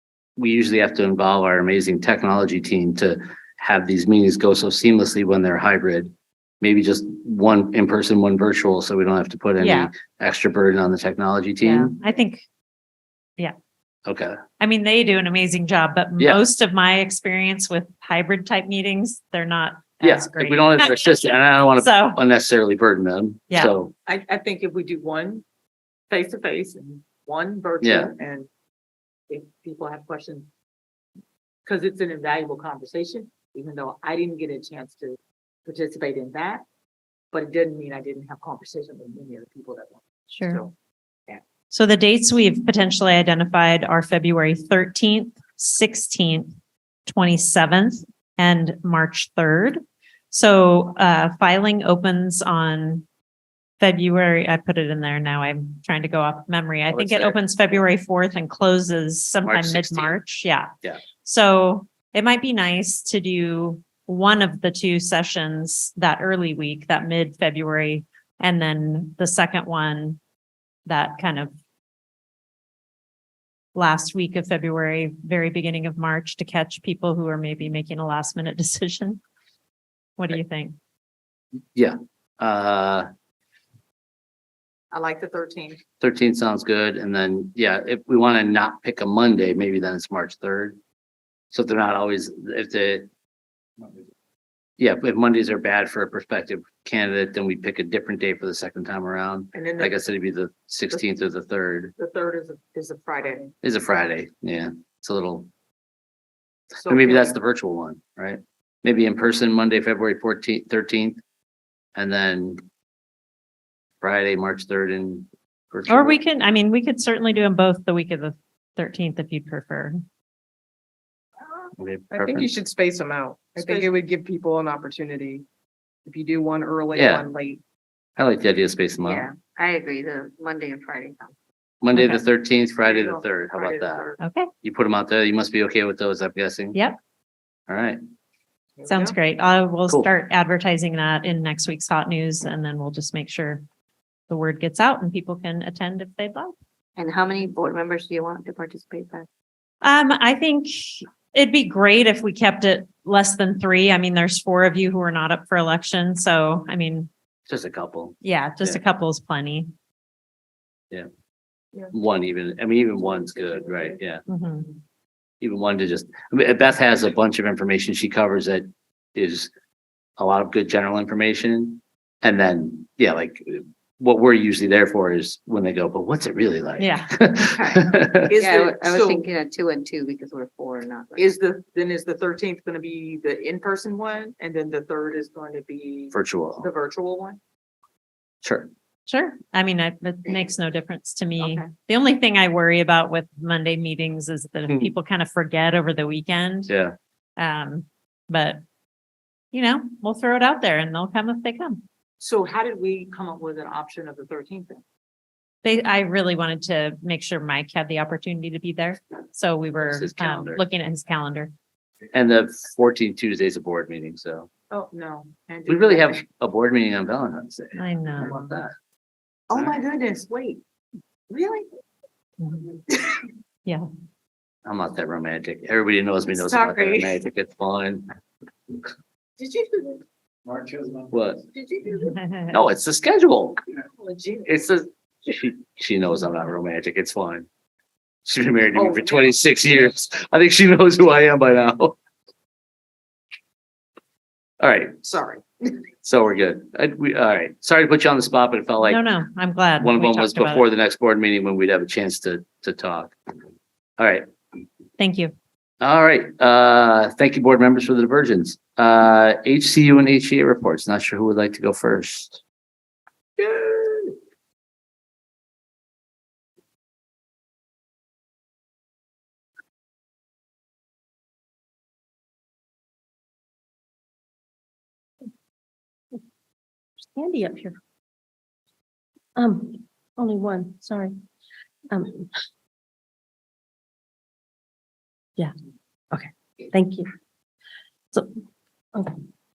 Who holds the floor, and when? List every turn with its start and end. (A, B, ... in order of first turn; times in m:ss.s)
0:00.4-0:11.9 A
0:09.6-0:09.9 B
0:11.6-0:12.4 B
0:14.1-0:14.4 A
0:14.6-0:22.2 B
0:20.0-0:23.9 A
0:24.1-0:25.4 C
0:26.1-0:28.5 C
0:27.8-0:28.1 A
0:29.3-0:30.5 C
0:31.7-0:36.6 C
0:37.3-0:40.7 C
0:40.3-0:40.6 B
0:41.7-0:46.5 B
0:47.1-0:49.8 B
0:50.3-0:53.0 B
0:53.8-1:00.7 B
0:56.9-0:57.4 A
0:59.4-1:00.2 A
1:01.2-1:10.2 B
1:10.9-1:11.5 B
1:13.8-1:19.2 B
1:20.2-1:20.8 B
1:21.8-1:23.1 A
1:24.9-1:25.8 C
1:26.0-1:30.8 A
1:31.5-1:33.1 A
1:34.8-1:41.9 A
1:39.5-1:40.0 C
1:42.0-1:43.5 C
1:43.6-1:45.5 A
1:46.8-1:47.4 C
1:46.9-1:51.2 A
1:52.0-1:52.6 A
1:54.0-1:56.2 A
1:55.9-2:00.0 B
2:01.8-2:02.5 A
2:02.1-2:05.4 D
2:03.6-2:03.9 C
2:06.1-2:07.6 D
2:07.0-2:07.3 A
2:08.2-2:09.3 A
2:09.0-2:11.3 E
2:11.8-2:14.1 A
2:11.9-2:12.2 B
2:12.8-2:14.2 C
2:14.2-2:14.5 B
2:14.6-2:16.8 A
2:17.7-2:18.0 A
2:18.8-2:19.2 C
2:18.9-2:23.6 B
2:24.3-2:26.5 B
2:27.0-2:29.3 E
2:29.8-2:37.1 B
2:37.5-2:38.8 A
2:38.2-2:39.7 B
2:41.9-2:44.2 A
2:44.3-2:44.7 B
2:45.4-2:49.5 A
2:50.2-2:58.3 A
2:56.8-2:57.2 B
2:57.5-2:57.9 E
2:58.1-2:59.3 C
2:58.4-3:01.3 E
3:01.2-3:07.4 C
3:06.1-3:06.7 A
3:08.4-3:08.7 A
3:09.1-3:16.7 B
3:11.4-3:11.7 C
3:16.7-3:16.9 A
3:17.4-3:18.6 B
3:19.5-3:21.8 B
3:22.2-3:24.8 C
3:25.6-3:31.5 B
3:29.8-3:30.6 A
3:32.1-3:34.5 A
3:34.7-3:36.2 C
3:35.7-3:38.7 A
3:37.8-3:38.4 B
3:39.5-3:40.6 C
3:41.3-3:41.7 C
3:42.9-3:43.2 C
3:44.6-3:48.0 A
3:46.3-3:47.2 C
3:49.4-3:50.0 C
3:50.6-3:50.9 C
3:51.1-3:51.4 A
3:51.5-3:52.2 C
3:52.0-3:52.6 B
3:52.5-3:53.6 A
3:53.8-3:54.8 C
3:54.5-3:57.5 A
3:58.3-4:02.0 A
3:58.7-3:59.4 C
4:04.6-4:05.0 A
4:05.0-4:05.4 C
4:06.0-4:09.0 A
4:08.8-4:10.6 B
4:09.8-4:13.2 A
4:14.0-4:14.2 A
4:15.0-4:15.3 B
4:15.8-4:22.4 A
4:23.4-4:24.1 C
4:37.1-4:37.8 F
4:39.4-4:41.2 F
4:41.9-4:42.3 F
4:46.1-4:47.1 F